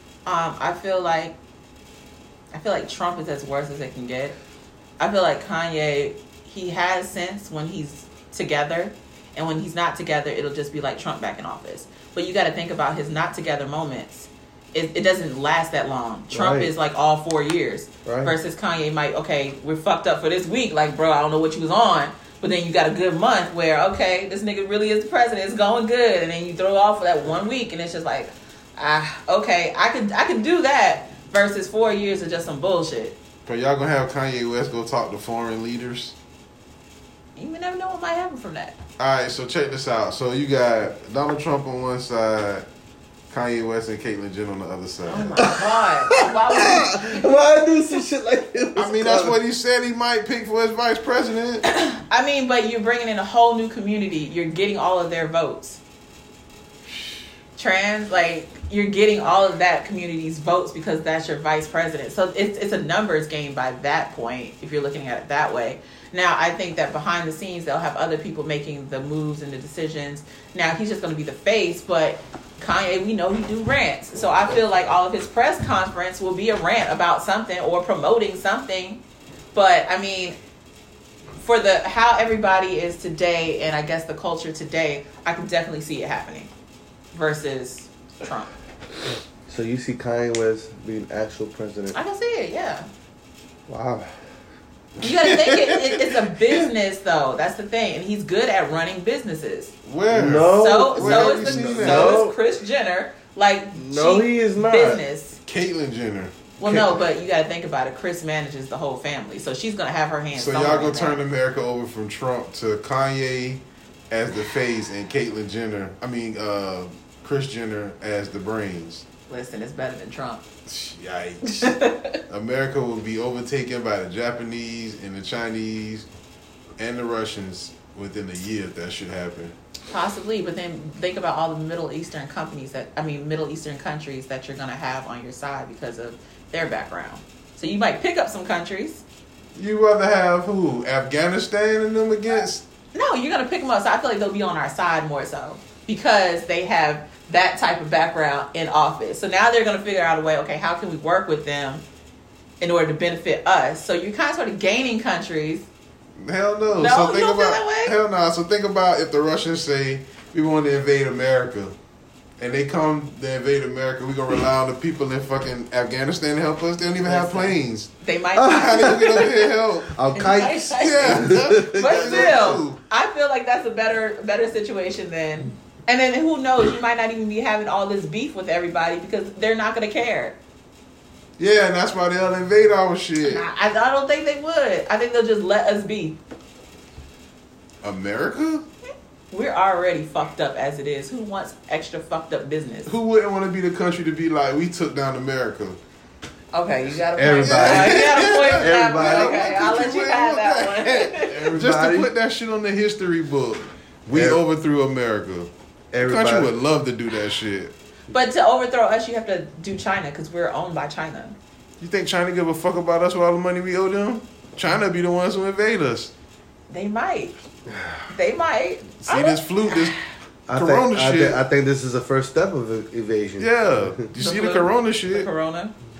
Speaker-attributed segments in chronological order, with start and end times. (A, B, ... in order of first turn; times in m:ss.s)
0:00.2-0:01.4 A
0:02.5-0:04.4 A
0:05.0-0:33.2 A
0:16.3-0:16.7 B
0:18.0-0:18.3 B
0:33.4-0:36.1 C
0:37.4-0:38.8 A
0:39.0-0:42.6 C
0:43.3-0:45.5 C
0:45.1-0:47.2 A
0:45.4-0:49.4 B
0:48.8-0:51.6 C
0:51.8-0:55.8 A
0:57.6-1:19.0 A
1:19.5-1:20.4 A
1:21.4-1:26.5 A
1:27.1-1:28.5 A
1:29.5-1:32.0 B
1:31.9-1:32.9 A
1:33.7-1:34.1 B
1:35.0-1:39.7 A
1:35.0-1:36.7 C
1:39.8-1:42.3 C
1:40.1-1:42.3 B
1:40.5-1:45.4 A
1:43.7-1:45.0 B
1:45.4-1:46.4 C
1:46.6-1:51.2 A
1:46.6-1:47.0 B
1:50.3-1:59.0 C
1:59.3-2:00.4 A
2:00.6-2:01.8 C
2:01.6-2:02.2 A
2:02.3-2:06.0 C
2:06.8-2:09.5 C
2:09.9-2:19.0 A
2:19.5-2:22.6 C
2:22.9-2:31.8 A
2:32.6-2:35.7 A
2:36.2-2:41.8 C
2:36.8-2:38.0 A
2:42.4-2:47.9 C
2:47.0-2:49.3 A
2:48.4-2:49.3 B
2:48.5-2:49.9 C
2:49.8-2:52.5 B
2:50.1-3:00.4 A
2:50.8-2:52.8 C
3:01.4-3:03.4 C
3:03.2-3:06.2 A
3:07.8-3:08.6 C
3:09.3-3:12.9 A
3:12.9-3:15.8 C
3:16.5-3:21.5 A
3:17.1-3:19.5 B
3:17.4-3:25.5 C
3:21.5-3:22.1 B
3:24.1-3:24.4 B
3:25.9-3:26.5 B
3:26.0-3:27.7 C
3:28.1-3:31.4 A
3:31.8-3:36.1 C
3:36.7-3:37.4 A
3:37.7-3:38.0 B
3:38.1-3:40.0 A
3:39.0-3:40.0 C
3:40.5-3:44.0 B
3:40.5-3:41.4 C
3:43.4-3:45.3 C
3:44.2-3:45.7 A